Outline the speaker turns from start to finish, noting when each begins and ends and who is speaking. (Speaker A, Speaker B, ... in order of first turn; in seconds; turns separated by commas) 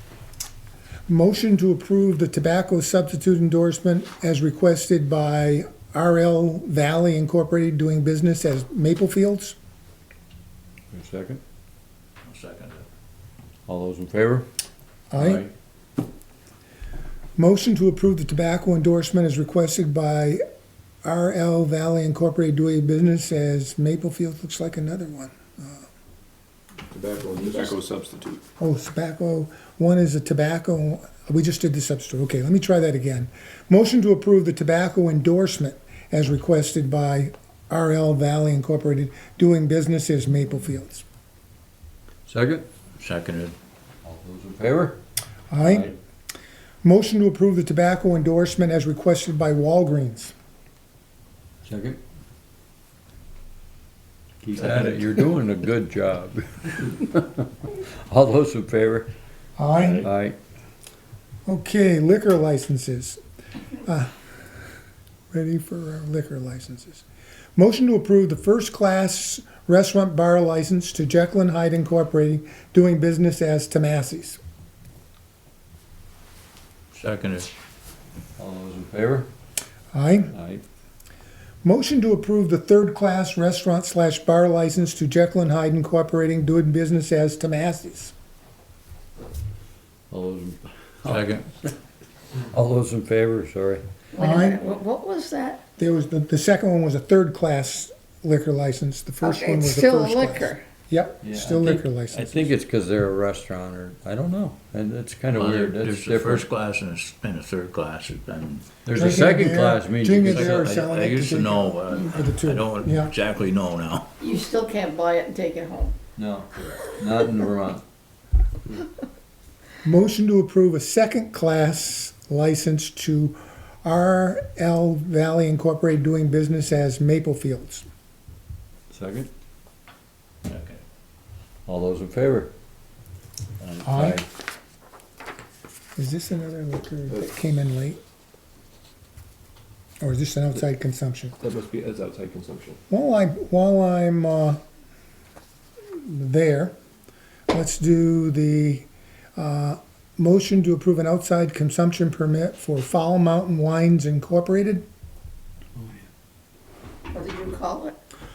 Speaker A: 1.1-9.6, Speaker B: 10.9-11.4, Speaker C: 12.3-12.8, Speaker B: 13.7-14.5, Speaker A: 15.1-15.5, Speaker C: 15.2-15.5, Speaker A: 17.4-20.4, Speaker A: 21.0-25.9, Speaker D: 26.9-28.4, Speaker A: 28.6-41.0, Speaker B: 42.3-42.7, Speaker C: 43.0-43.5, Speaker B: 44.0-45.0, Speaker A: 45.5-46.0, Speaker B: 45.6-45.9, Speaker A: 46.8-50.3, Speaker B: 51.6-52.0, Speaker B: 54.4-59.1, Speaker A: 59.6-60.1, Speaker B: 60.0-60.4, Speaker A: 61.5-63.2, Speaker A: 63.8-64.2, Speaker A: 65.3-67.0, Speaker A: 67.6-74.4, Speaker C: 76.9-77.5, Speaker B: 78.4-79.3, Speaker A: 79.9-80.3, Speaker B: 80.3-80.6, Speaker A: 81.6-88.1, Speaker B: 90.1-91.7, Speaker C: 91.0-91.5, Speaker B: 92.5-93.8, Speaker E: 94.1-95.6, Speaker A: 94.2-94.6, Speaker A: 95.8-102.5, Speaker E: 99.2-100.6, Speaker B: 101.2-106.5, Speaker C: 105.3-108.8, Speaker B: 108.9-110.6, Speaker A: 108.9-113.1, Speaker C: 110.2-114.1, Speaker E: 114.2-115.9, Speaker B: 116.2-117.8, Speaker A: 119.8-127.9, Speaker B: 128.9-129.3, Speaker C: 130.4-130.8, Speaker B: 131.7-132.5, Speaker C: 133.6-134.2, Speaker A: 133.8-134.2, Speaker B: 133.9-134.2, Speaker A: 136.0-138.0, Speaker A: 140.0-141.4, Speaker D: 141.4-142.8, Speaker A: 142.9-144.6, Speaker A: 145.9-146.8, Speaker A: 147.5-154.8, Speaker E: 157.1-157.9